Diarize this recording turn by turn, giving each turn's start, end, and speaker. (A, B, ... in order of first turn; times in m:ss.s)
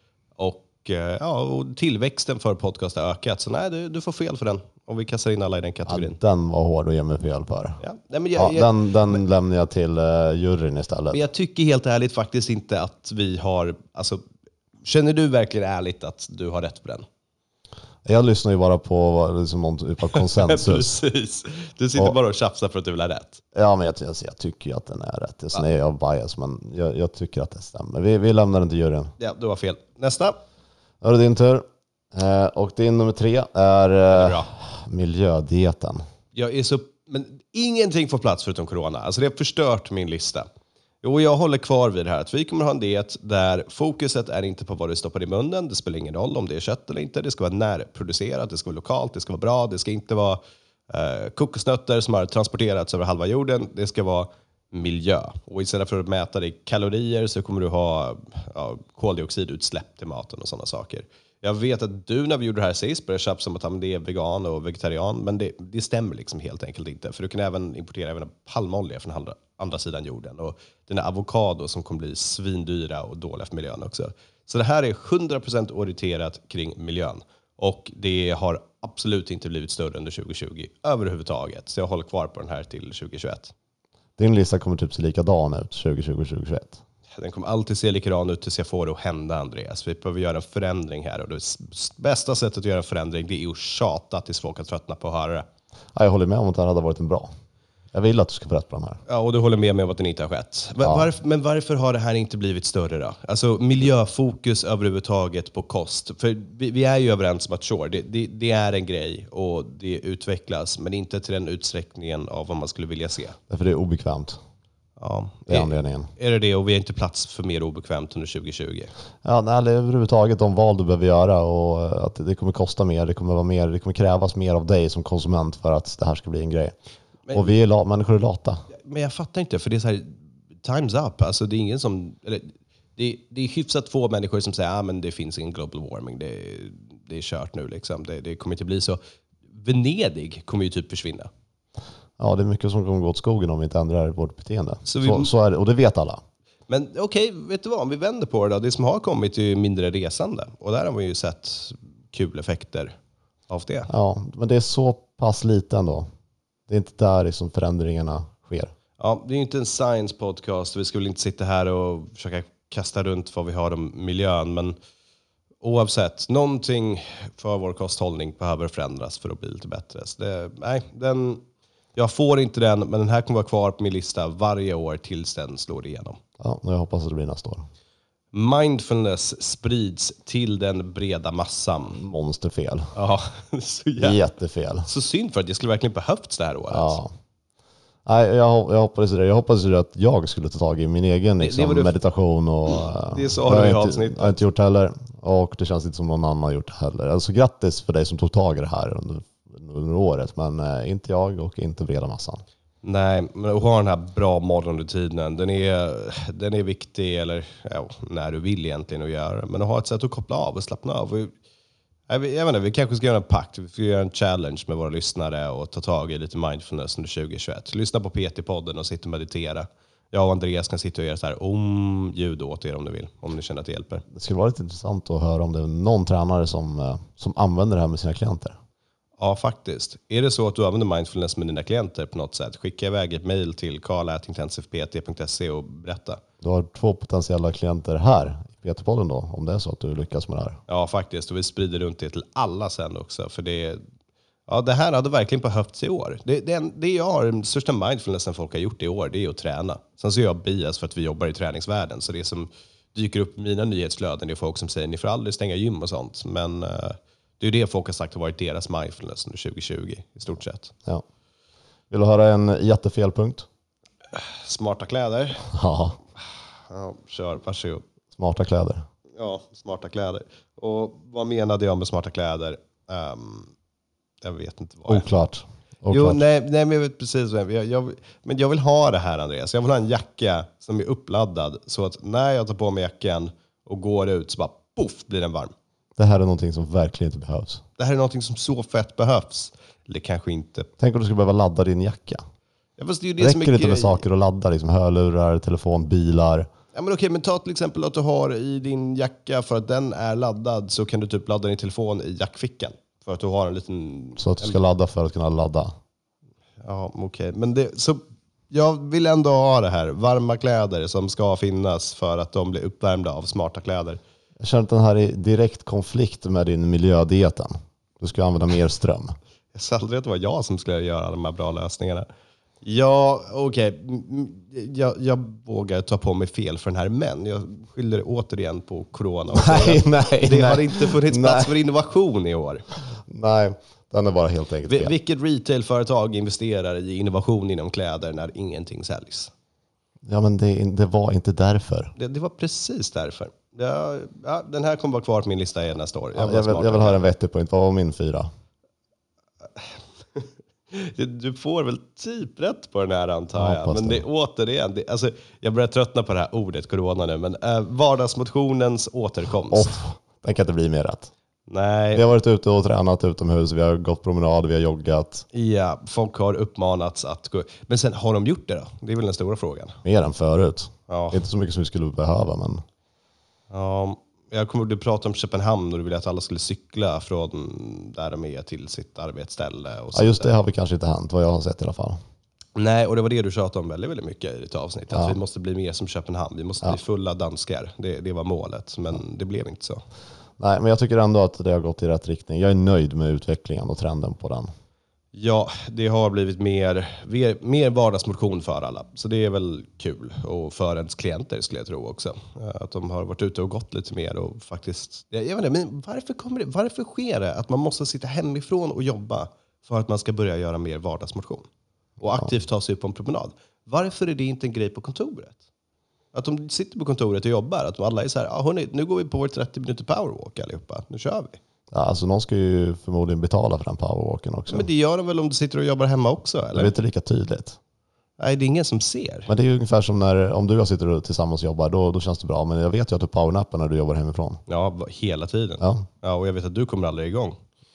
0:00.4-0:06.2 A
0:05.9-0:07.8 B
0:07.8-0:09.2 A
0:08.4-0:11.2 B
0:11.1-0:14.2 A
0:14.8-0:17.0 A
0:18.0-0:20.9 B
0:20.1-0:23.4 A
0:23.5-0:29.1 B
0:29.2-0:30.4 A
0:31.0-0:36.0 B
0:34.1-0:34.5 A
0:36.3-0:40.5 A
0:41.0-1:23.5 A
1:24.2-1:26.8 B
1:27.1-1:35.5 A
1:35.9-1:37.3 B
1:37.9-1:39.0 B
1:39.1-1:53.4 A
1:40.8-1:41.1 B
1:53.5-1:54.4 B
1:55.0-1:58.9 A
1:55.5-1:56.1 B
1:59.2-2:06.7 B
2:07.3-2:08.6 B
2:08.7-2:19.0 A
2:19.5-2:21.3 A
2:22.2-2:26.2 B
2:24.8-2:25.3 A
2:26.7-2:32.9 A
2:33.5-2:33.9 A
2:33.9-2:36.1 B
2:36.7-2:38.7 B
2:39.0-2:44.8 A
2:45.6-2:51.4 A
2:51.9-2:56.2 A
2:56.4-2:57.7 B
2:58.3-3:02.0 A
3:01.9-3:02.9 B
3:02.9-3:04.2 A
3:04.0-3:04.9 B
3:04.8-3:07.0 A
3:06.7-3:07.1 B
3:08.0-3:22.4 B
3:11.4-3:12.0 A
3:13.1-3:14.4 A
3:22.8-3:31.3 A
3:32.1-3:44.0 A
3:44.1-3:48.6 B
3:49.2-3:56.2 A
3:56.4-4:00.6 B
4:00.7-4:03.8 A
4:04.5-4:20.7 A
4:21.9-4:23.5 B
4:24.1-4:25.5 A
4:25.5-4:26.0 B
4:26.7-4:27.8 A
4:28.1-4:28.8 B
4:29.2-4:33.5 A
4:34.2-4:35.0 A
4:34.9-4:36.2 B
4:35.9-4:45.5 A
4:46.0-4:47.6 B
4:47.8-4:50.7 A
4:50.8-4:52.2 B
4:52.8-4:54.0 A
4:53.2-4:56.5 B
4:56.7-5:04.6 A
5:04.2-5:05.7 B
5:06.6-5:14.0 A
5:14.4-5:19.1 B
5:19.5-5:22.1 A
5:22.6-5:32.6 A
5:29.3-5:31.5 B
5:33.1-5:34.9 B
5:34.7-5:39.3 A
5:40.0-5:41.9 B
5:42.0-5:47.0 A
5:46.1-5:48.3 B
5:49.6-5:59.8 A
5:53.4-5:54.0 B
5:59.5-6:01.1 B
6:01.5-6:02.0 A
6:01.9-6:05.2 B
6:05.3-6:09.8 A
6:09.8-6:12.6 B
6:10.9-6:11.2 A
6:13.5-6:20.3 A
6:19.9-6:22.0 B
6:22.6-6:29.8 A
6:24.9-6:25.2 B
6:30.4-6:34.5 B
6:35.1-6:51.5 A
6:52.0-6:55.4 A
6:56.1-7:01.4 A
7:01.7-7:04.7 B
7:04.5-7:06.7 A
7:06.5-7:07.6 B
7:08.2-7:09.3 A
7:09.3-7:14.4 B
7:14.5-7:17.4 A
7:15.6-7:15.8 B